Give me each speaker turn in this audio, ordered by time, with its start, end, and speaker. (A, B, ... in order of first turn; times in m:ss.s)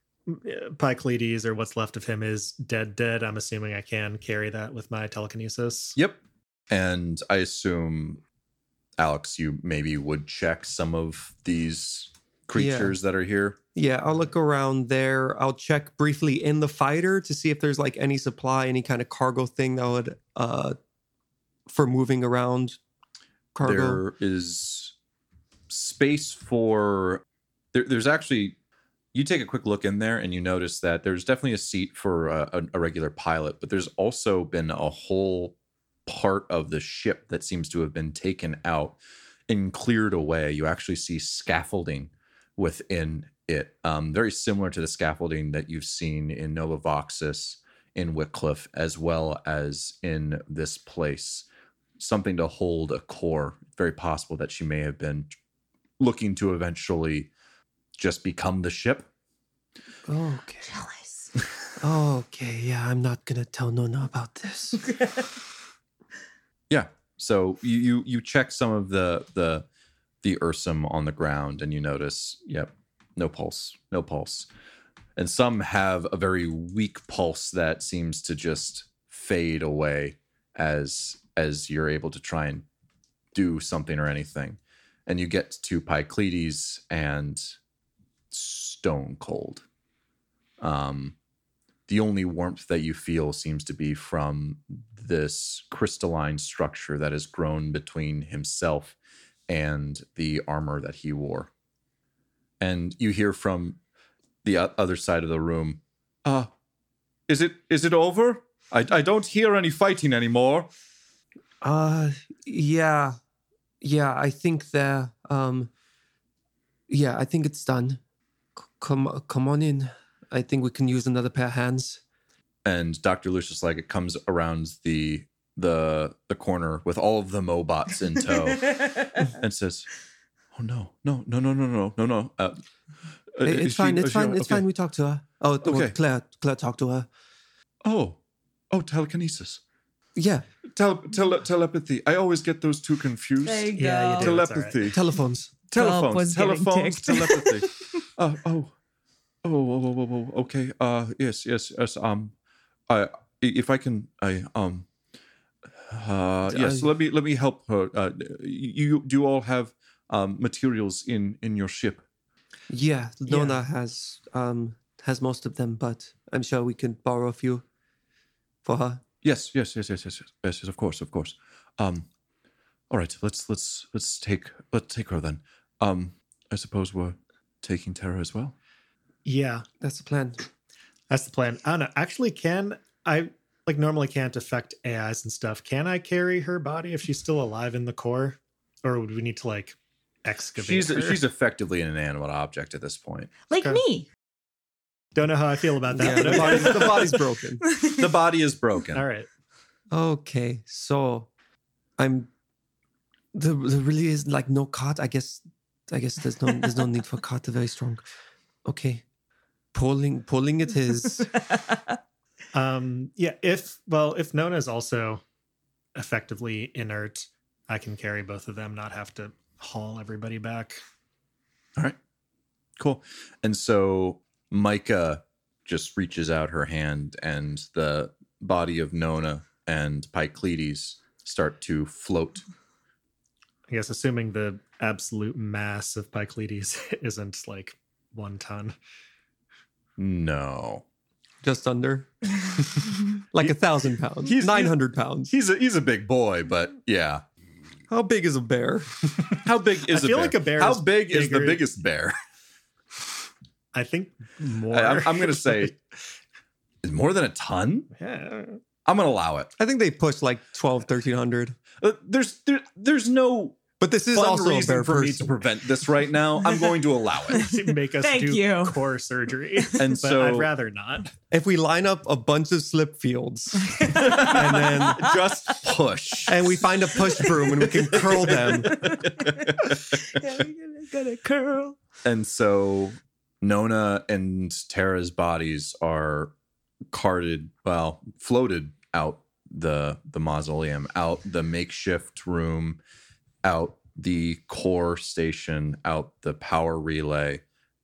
0:00.3-0:06.0 A
0:06.0-0:08.2 B
0:09.0-0:13.6 B
0:12.5-0:13.0 C
0:13.8-0:20.8 C
0:21.7-0:22.8 C
0:23.6-0:24.0 C
0:23.6-0:24.9 B
0:25.7-0:27.2 B
0:27.7-0:28.6 B
0:29.1-0:35.6 B
0:36.1-0:51.5 B
0:52.0-0:55.3 B
0:56.0-0:57.3 B
0:58.0-0:59.1 B
1:00.1-1:00.7 C
1:00.7-1:01.3 D
1:01.8-1:04.8 C
1:04.8-1:05.3 D
1:06.7-1:09.6 B
1:10.2-1:14.5 B
1:15.2-1:22.6 B
1:23.3-1:27.5 B
1:28.3-1:29.6 B
1:30.6-1:31.2 B
1:31.9-1:39.0 B
1:39.5-1:41.5 B
1:42.6-1:43.8 B
1:44.4-1:46.5 B
1:47.3-1:50.7 B
1:51.6-1:53.2 C
1:53.8-1:55.7 C
1:56.9-1:58.0 C
1:58.6-2:02.0 C
2:02.6-2:09.9 B
2:08.7-2:09.0 D
2:10.5-2:12.6 B
2:13.3-2:14.6 B
2:13.4-2:17.1 C
2:15.6-2:16.0 B
2:17.8-2:18.2 B
2:18.7-2:19.6 B
2:20.2-2:20.4 C
2:20.7-2:25.0 B
2:23.4-2:24.4 D
2:23.8-2:24.8 A
2:24.9-2:25.5 C
2:25.7-2:28.7 B
2:25.8-2:28.0 D
2:29.4-2:32.3 B
2:32.9-2:34.9 B
2:35.9-2:42.0 B
2:36.5-2:36.9 C
2:42.7-2:47.6 C
2:43.3-2:43.6 A
2:48.6-2:49.0 C
2:49.2-2:52.1 B
2:52.9-2:58.6 B
2:59.2-2:59.7 A
2:59.8-3:00.4 C
3:01.1-3:11.2 A
3:10.6-3:13.3 B
3:13.5-3:14.1 D
3:15.2-3:17.1 A
3:16.0-3:17.6 C
3:16.2-3:16.8 D
3:16.3-3:17.1 B
3:17.6-3:18.1 D
3:17.8-3:19.0 B
3:18.9-3:19.3 A
3:19.9-3:21.3 C
3:22.0-3:22.3 C
3:23.3-3:28.0 C
3:28.7-3:29.0 C
3:29.7-3:31.3 C
3:31.5-3:32.0 D
3:32.5-3:35.2 A
3:36.0-3:40.8 A
3:42.8-3:52.4 B
3:53.7-3:58.7 A
4:00.0-4:00.8 B
4:01.4-4:05.3 C
4:04.3-4:07.2 B
4:07.9-4:09.4 C
4:09.4-4:12.2 B
4:09.9-4:11.6 A
4:13.7-4:15.8 A
4:14.7-4:15.7 B
4:16.8-4:17.9 B
4:18.0-4:18.6 A
4:18.8-4:19.5 B
4:19.6-4:21.6 C
4:21.8-4:23.6 B
4:23.8-4:25.3 C
4:24.1-4:27.4 B
4:27.3-4:31.1 A
4:27.4-4:28.8 D
4:29.8-4:30.5 B
4:31.3-4:35.1 C
4:33.6-4:35.6 D
4:33.9-4:39.8 B
4:36.3-4:38.9 C
4:37.2-4:37.7 D
4:38.6-4:41.8 D
4:42.0-4:46.3 B
4:46.9-4:52.8 B
4:53.4-4:57.4 B